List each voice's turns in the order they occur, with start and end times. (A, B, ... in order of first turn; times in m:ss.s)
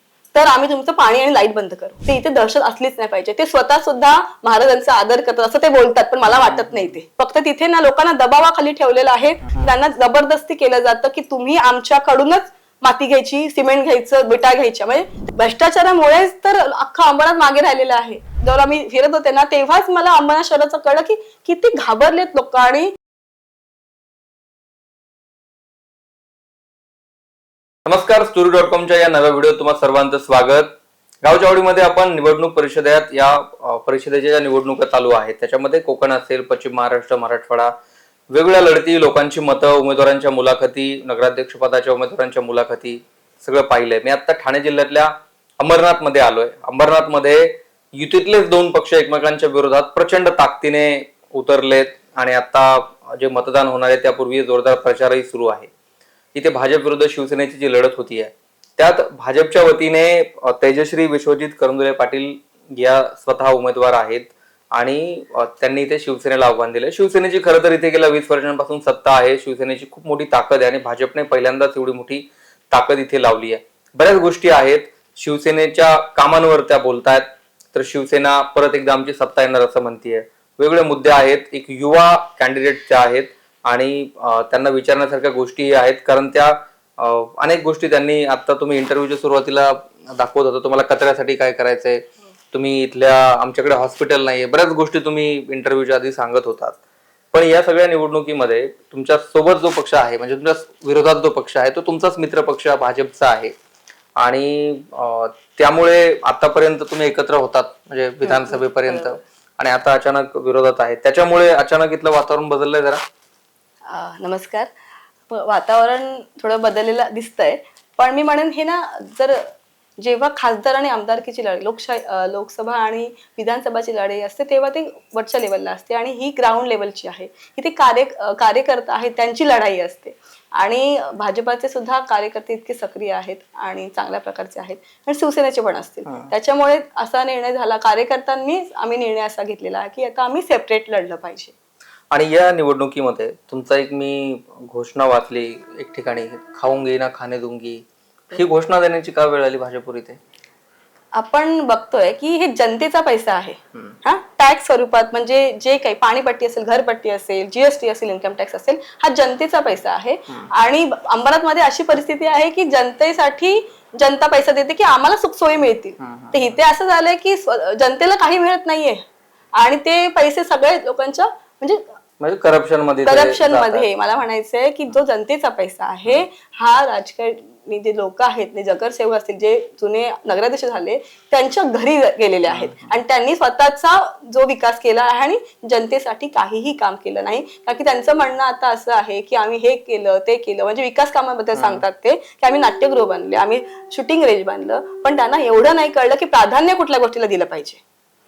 0:00.3-0:22.9 A
0:06.2-0:06.9 B
0:27.9-0:37.7 B
0:38.3-0:55.7 B
0:56.3-1:36.8 B
1:37.3-1:43.5 B
1:44.2-1:53.0 B
1:48.2-1:49.1 A
1:53.9-1:54.7 A
1:55.3-2:21.5 A
2:16.0-2:16.3 B
2:22.1-2:30.2 B
2:31.1-2:49.0 A
2:46.0-2:46.6 B
2:49.6-2:51.8 A
2:52.2-2:54.2 B
2:53.0-3:17.8 A
3:02.5-3:03.0 B
3:11.5-3:11.8 B